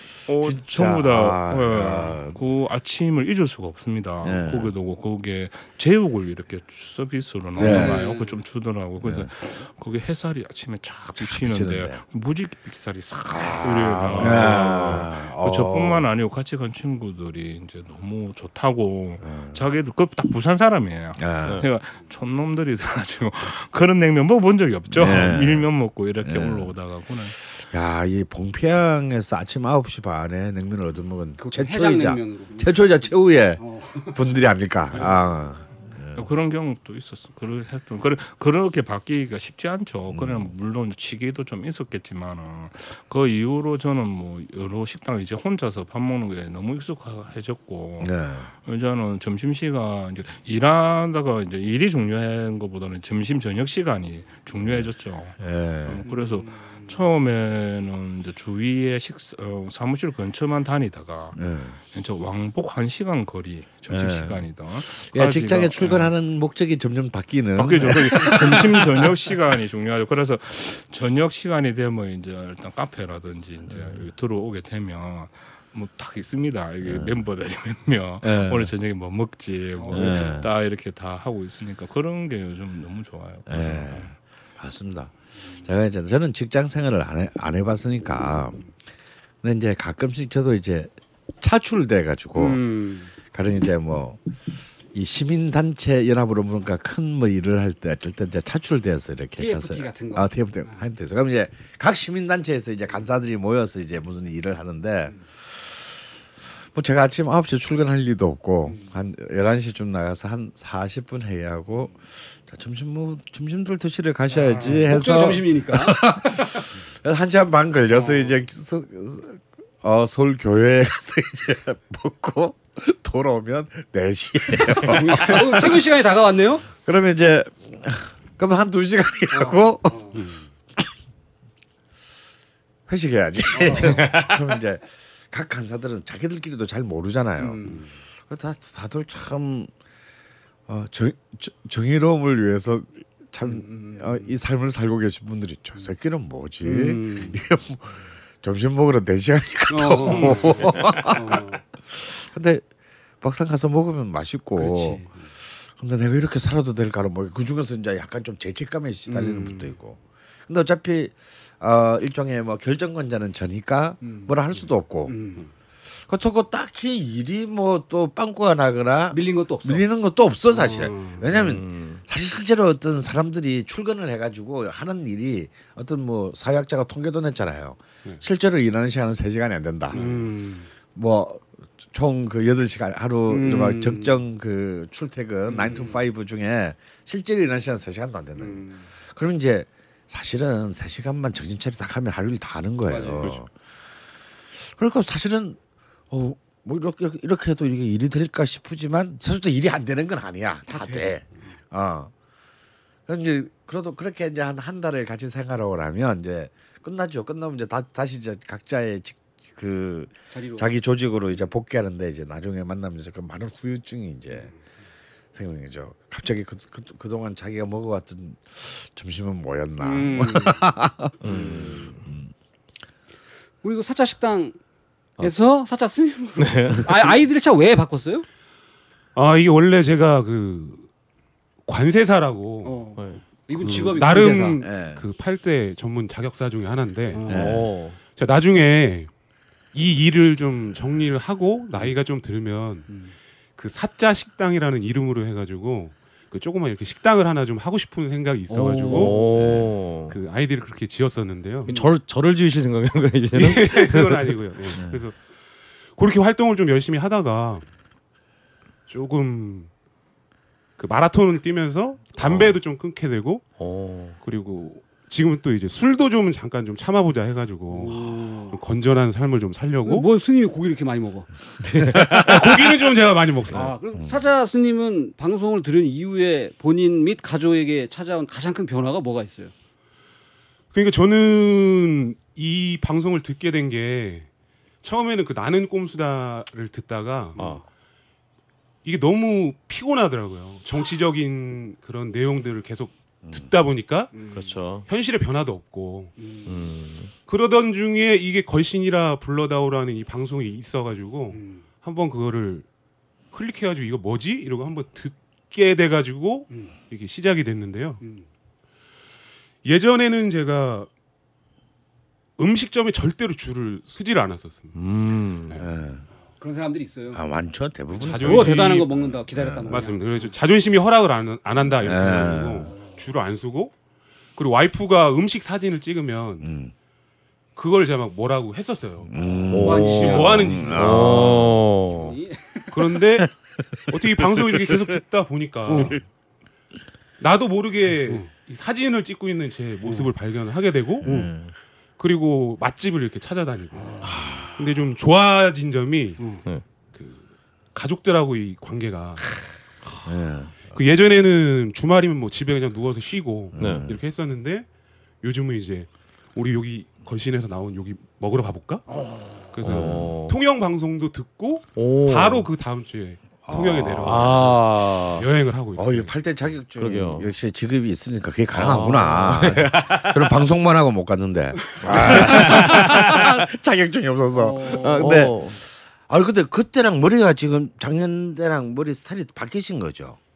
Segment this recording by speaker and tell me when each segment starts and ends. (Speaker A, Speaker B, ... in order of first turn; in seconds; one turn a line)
Speaker A: 0.2-27.4
Speaker B: 0.4-2.4
Speaker B: 4.2-4.7
Speaker B: 7.5-8.0
Speaker C: 7.6-8.4
Speaker B: 9.0-9.3
Speaker B: 11.2-12.0
Speaker B: 13.3-16.0
Speaker D: 14.1-15.0
Speaker B: 19.2-19.6
Speaker B: 21.2-21.6
Speaker B: 24.9-25.7
Speaker B: 26.2-26.7
Speaker B: 27.4-36.3
Speaker C: 31.4-34.4
Speaker A: 36.1-66.1
Speaker B: 40.1-40.5
Speaker B: 48.0-48.5
Speaker B: 54.6-56.0
Speaker C: 56.0-56.9
Speaker B: 61.3-61.8
Speaker B: 63.9-69.2
Speaker A: 67.5-84.1
Speaker B: 73.7-74.1
Speaker B: 76.8-77.2
Speaker B: 78.2-78.7
Speaker C: 79.8-80.3
Speaker B: 79.9-80.5
Speaker B: 83.5-88.7
Speaker B: 89.4-92.6
Speaker C: 92.3-93.1
Speaker B: 93.3-94.2
Speaker B: 94.9-106.0
Speaker C: 99.4-100.8
Speaker B: 106.7-125.9
Speaker C: 108.7-108.9
Speaker C: 114.3-116.7
Speaker C: 117.9-118.4
Speaker C: 124.7-126.7
Speaker B: 126.7-130.0
Speaker C: 129.3-130.2
Speaker E: 130.1-130.4
Speaker B: 132.9-139.7
Speaker C: 133.5-134.0
Speaker D: 133.8-134.3
Speaker C: 137.4-137.9
Speaker B: 140.7-152.7
Speaker C: 143.4-144.3
Speaker C: 146.6-147.4
Speaker C: 149.7-151.6
Speaker B: 153.2-165.2
Speaker C: 154.6-155.3
Speaker C: 159.1-159.7
Speaker C: 164.0-164.3
Speaker C: 165.1-165.5
Speaker B: 165.9-180.0
Speaker C: 169.1-169.8
Speaker C: 170.5-171.2
Speaker D: 171.3-172.0
Speaker C: 179.9-180.7
Speaker E: 179.9-180.2
Speaker B: 180.9-193.5
Speaker C: 183.3-184.2
Speaker C: 185.5-186.0
Speaker C: 188.4-188.8
Speaker C: 192.8-193.4
Speaker B: 194.6-195.6
Speaker B: 196.1-202.1
Speaker C: 200.7-201.5
Speaker B: 203.1-214.5
Speaker C: 210.3-210.7
Speaker B: 215.3-222.3
Speaker C: 219.8-220.7
Speaker D: 221.2-222.0
Speaker C: 221.2-221.9
Speaker C: 223.6-224.6
Speaker C: 225.2-228.2
Speaker D: 226.4-227.1
Speaker E: 229.1-230.9
Speaker E: 231.6-232.8
Speaker C: 232.6-234.6
Speaker D: 232.9-233.2
Speaker E: 233.5-239.1
Speaker B: 234.6-235.1
Speaker C: 237.1-237.5
Speaker D: 237.3-238.0
Speaker B: 237.3-237.7
Speaker E: 239.7-243.0
Speaker C: 242.9-243.1
Speaker E: 243.6-251.7
Speaker C: 248.5-249.2
Speaker D: 248.9-250.2
Speaker B: 249.3-249.7
Speaker D: 251.7-254.2
Speaker E: 253.3-255.2
Speaker B: 254.8-255.0
Speaker E: 255.9-257.6
Speaker E: 258.9-259.7
Speaker E: 260.8-263.5
Speaker D: 262.2-262.6
Speaker D: 263.6-264.2
Speaker E: 264.2-270.1
Speaker C: 267.7-268.6
Speaker C: 269.8-271.3
Speaker B: 271.6-272.7
Speaker D: 271.8-272.2
Speaker E: 271.9-273.7
Speaker C: 273.5-279.5
Speaker E: 280.7-284.3
Speaker E: 284.8-287.4
Speaker C: 287.3-287.6
Speaker D: 287.4-287.6
Speaker E: 288.8-294.3
Speaker B: 293.2-293.5
Speaker C: 294.1-294.5
Speaker D: 294.3-294.9
Speaker E: 294.9-296.2
Speaker C: 296.2-296.5
Speaker D: 296.4-297.1
Speaker E: 297.2-302.7
Speaker C: 301.3-301.6
Speaker E: 303.3-308.0
Speaker C: 308.0-308.2
Speaker E: 309.6-310.9
Speaker E: 312.4-314.8
Speaker D: 314.7-315.6
Speaker B: 315.6-316.1
Speaker C: 316.4-317.2
Speaker B: 317.1-318.6
Speaker C: 317.9-320.3
Speaker E: 318.0-323.7
Speaker B: 319.3-319.8
Speaker B: 321.8-322.7
Speaker E: 324.3-326.5
Speaker B: 326.4-326.7
Speaker E: 327.5-331.4
Speaker B: 329.1-331.6
Speaker C: 329.4-330.7
Speaker D: 329.5-332.1
Speaker C: 331.9-332.8
Speaker E: 332.7-333.3
Speaker B: 333.2-334.9
Speaker E: 333.9-336.1
Speaker C: 335.6-336.0
Speaker E: 337.2-341.3
Speaker C: 339.8-340.1
Speaker B: 341.0-341.5
Speaker C: 341.0-341.3
Speaker E: 342.0-349.4
Speaker C: 343.7-344.5
Speaker B: 344.1-344.4
Speaker B: 350.0-350.8
Speaker E: 350.7-366.1
Speaker B: 353.5-354.0
Speaker D: 353.6-353.9
Speaker C: 358.9-359.6
Speaker B: 359.6-360.2
Speaker D: 359.6-360.4
Speaker D: 361.7-362.5
Speaker B: 363.4-364.5
Speaker D: 364.0-365.3
Speaker B: 365.8-380.2
Speaker D: 366.8-367.3
Speaker D: 368.5-370.3
Speaker D: 371.8-373.3
Speaker E: 372.1-372.7
Speaker C: 374.3-375.3
Speaker D: 374.9-375.6